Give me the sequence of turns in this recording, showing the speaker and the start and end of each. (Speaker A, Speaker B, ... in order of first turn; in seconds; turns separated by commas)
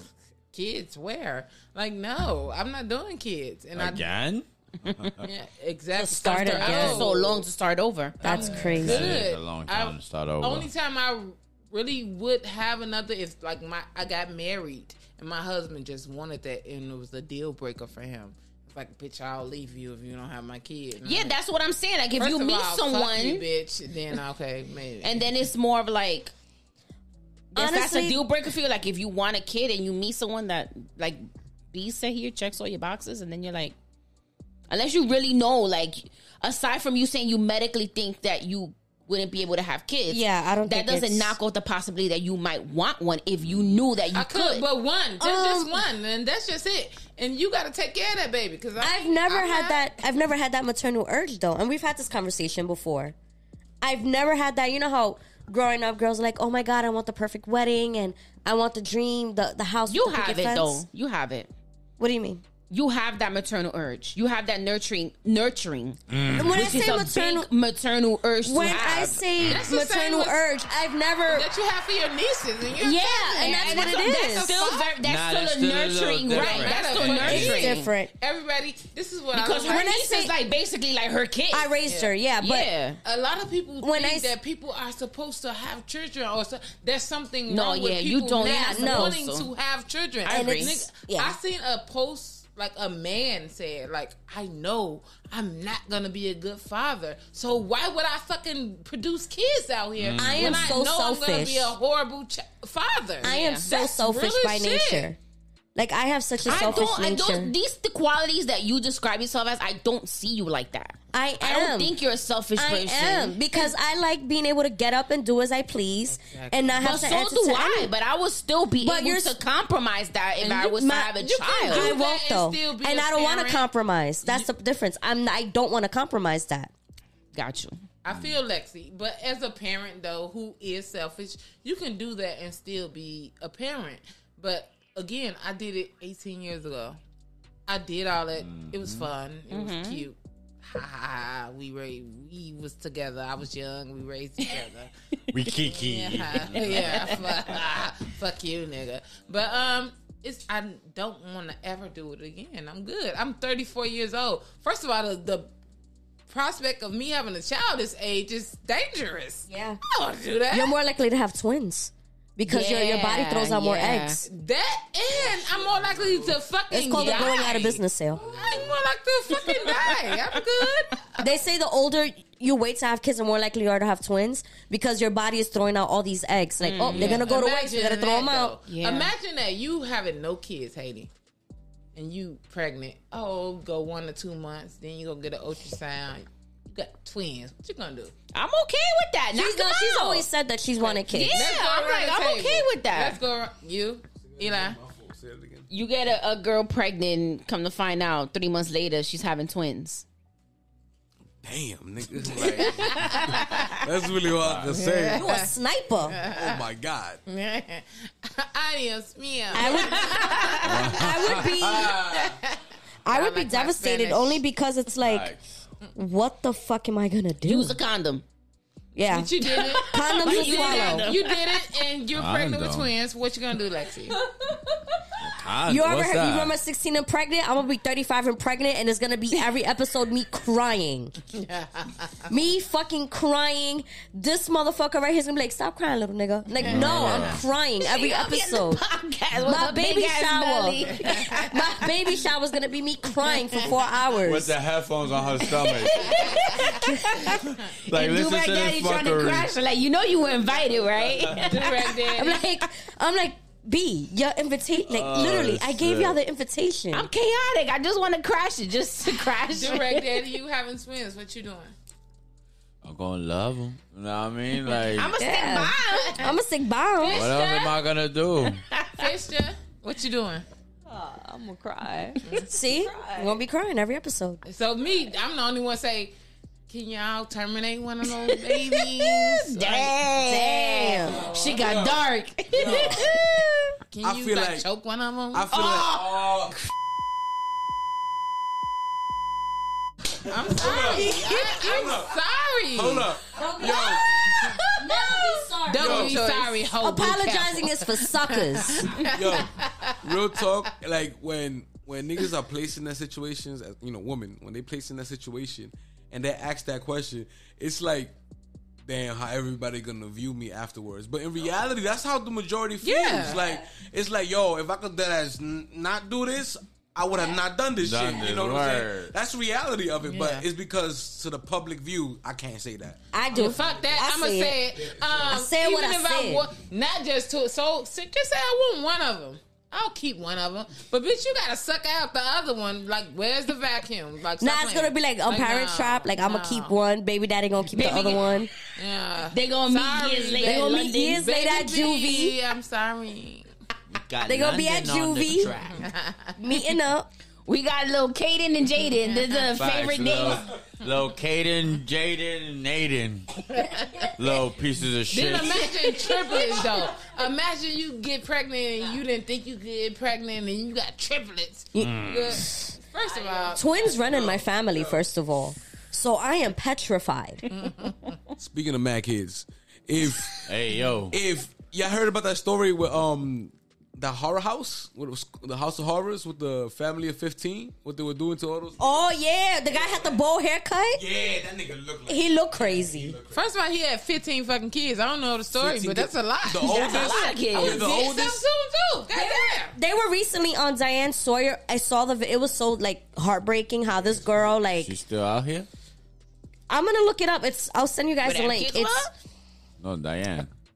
Speaker A: 0.5-4.1, Speaker B: 3.8-5.3, Speaker A: 5.2-7.5, Speaker C: 6.0-7.1, Speaker D: 6.3-8.6, Speaker A: 8.2-21.4, Speaker C: 8.2-9.2, Speaker B: 8.5-10.7, Speaker D: 21.0-23.4, Speaker A: 22.2-25.3, Speaker D: 25.0-26.3, Speaker D: 27.5-33.7, Speaker C: 27.5-28.2, Speaker D: 34.7-44.6, Speaker C: 40.1-41.4, Speaker A: 44.1-49.9, Speaker C: 45.2-45.8, Speaker C: 48.8-53.1, Speaker C: 53.8-60.8, Speaker D: 59.9-61.5, Speaker C: 62.0-62.4, Speaker D: 62.7-69.2, Speaker B: 66.1-66.8, Speaker C: 66.3-67.5, Speaker C: 68.4-71.5, Speaker A: 69.4-70.4, Speaker A: 71.3-75.0, Speaker D: 72.8-77.9, Speaker C: 73.3-74.5, Speaker B: 75.0-77.6, Speaker A: 76.3-80.0, Speaker C: 77.2-78.1, Speaker D: 79.3-81.7, Speaker C: 79.7-80.3, Speaker C: 81.5-82.7, Speaker A: 81.8-82.1, Speaker D: 82.4-83.0, Speaker A: 83.0-105.1, Speaker C: 83.8-84.3, Speaker D: 87.5-89.5, Speaker C: 88.4-89.2, Speaker D: 90.2-90.8, Speaker C: 90.2-91.4, Speaker B: 100.0-100.8, Speaker C: 100.2-101.7, Speaker C: 103.2-105.2, Speaker D: 103.3-103.6, Speaker C: 105.7-107.5, Speaker D: 106.5-113.4, Speaker A: 106.5-106.8, Speaker C: 111.1-112.0, Speaker C: 112.5-117.9, Speaker A: 116.1-117.0, Speaker D: 116.8-121.9, Speaker C: 118.8-119.3, Speaker C: 120.4-126.7, Speaker A: 121.2-123.7, Speaker A: 124.2-124.5, Speaker D: 127.3-127.8, Speaker A: 128.0-137.0, Speaker A: 137.7-144.9, Speaker B: 138.4-139.1, Speaker D: 139.5-140.0, Speaker B: 145.3-147.3, Speaker A: 145.5-155.5, Speaker D: 146.5-147.6, Speaker A: 156.3-160.7, Speaker C: 159.5-159.8, Speaker C: 160.5-164.2, Speaker D: 162.5-164.2, Speaker A: 164.2-171.3, Speaker E: 165.1-166.4, Speaker C: 166.7-168.2, Speaker E: 168.1-168.8, Speaker D: 169.7-170.1, Speaker C: 171.2-178.6, Speaker D: 176.6-177.2, Speaker A: 176.9-181.1, Speaker D: 178.7-179.1, Speaker A: 181.9-188.1, Speaker D: 188.3-190.3, Speaker C: 189.3-191.4, Speaker A: 190.8-194.8, Speaker D: 191.0-193.2, Speaker E: 194.2-195.7, Speaker D: 195.7-200.0, Speaker E: 201.4-205.5, Speaker A: 202.4-203.5, Speaker D: 202.6-203.7, Speaker B: 204.2-204.8, Speaker A: 204.7-205.5, Speaker C: 205.1-206.2, Speaker A: 206.1-206.6, Speaker E: 206.2-207.2, Speaker A: 207.2-211.3, Speaker C: 209.5-212.0, Speaker D: 209.6-210.6, Speaker B: 210.6-212.3, Speaker A: 211.9-214.4, Speaker C: 213.0-215.3, Speaker B: 215.1-215.4, Speaker C: 215.9-217.8, Speaker D: 217.4-218.2, Speaker C: 218.9-221.1, Speaker A: 219.1-224.2, Speaker D: 219.4-221.7, Speaker B: 222.1-222.9, Speaker B: 225.2-226.5, Speaker C: 225.6-231.1, Speaker A: 231.3-232.1, Speaker C: 232.3-238.8, Speaker B: 236.6-237.4, Speaker D: 236.7-237.1, Speaker D: 237.8-241.9, Speaker C: 239.4-244.6, Speaker A: 241.0-241.3, Speaker B: 244.2-246.6, Speaker D: 245.5-251.8, Speaker C: 246.8-247.2, Speaker B: 247.2-249.5, Speaker A: 251.3-252.4, Speaker C: 252.1-257.1, Speaker B: 254.9-256.2, Speaker D: 256.9-260.2, Speaker A: 259.2-261.7, Speaker B: 262.8-265.1, Speaker D: 264.9-266.3, Speaker C: 265.2-267.3, Speaker A: 265.9-266.3, Speaker A: 267.0-267.7, Speaker B: 267.1-268.6, Speaker D: 268.7-269.1, Speaker A: 269.0-270.4, Speaker F: 270.9-273.4, Speaker C: 272.4-274.4, Speaker A: 274.4-276.1, Speaker A: 276.7-279.9, Speaker D: 278.1-283.7, Speaker C: 280.2-281.3, Speaker E: 281.5-282.0, Speaker E: 282.5-283.1, Speaker A: 283.9-285.5, Speaker E: 284.0-284.6, Speaker E: 285.3-286.5, Speaker D: 285.5-286.3, Speaker A: 290.2-293.1, Speaker E: 290.5-292.2, Speaker E: 292.7-294.4, Speaker C: 293.3-294.2, Speaker A: 294.3-294.8, Speaker C: 294.8-299.0, Speaker A: 295.6-299.9, Speaker E: 295.8-296.2, Speaker E: 299.1-308.1, Speaker E: 308.9-324.0, Speaker A: 312.8-313.6, Speaker B: 317.8-319.1, Speaker A: 320.1-320.4, Speaker C: 323.1-324.6, Speaker A: 323.3-336.7, Speaker E: 324.8-325.4, Speaker C: 325.3-326.5, Speaker C: 334.4-338.5, Speaker D: 337.7-338.4, Speaker A: 338.7-343.5, Speaker D: 339.3-341.2, Speaker C: 340.4-342.4, Speaker B: 343.9-345.9, Speaker C: 344.2-345.6, Speaker A: 345.7-346.3, Speaker C: 346.4-347.1, Speaker D: 347.4-350.4, Speaker B: 349.5-353.4, Speaker A: 353.6-354.1, Speaker B: 354.1-355.7, Speaker A: 355.1-364.0, Speaker C: 361.7-362.7, Speaker B: 361.8-362.5, Speaker F: 363.0-363.7, Speaker C: 363.6-367.4, Speaker E: 364.1-364.9, Speaker A: 367.5-368.1, Speaker E: 368.4-370.5, Speaker B: 370.4-371.2, Speaker E: 371.1-378.9, Speaker C: 378.8-381.0, Speaker E: 379.7-380.2, Speaker E: 380.9-383.4, Speaker C: 382.1-383.1, Speaker A: 383.3-389.7, Speaker E: 385.5-388.4, Speaker D: 386.6-387.8, Speaker C: 389.1-394.9, Speaker B: 394.8-395.7, Speaker C: 396.7-399.0, Speaker D: 398.2-399.1, Speaker B: 399.8-400.5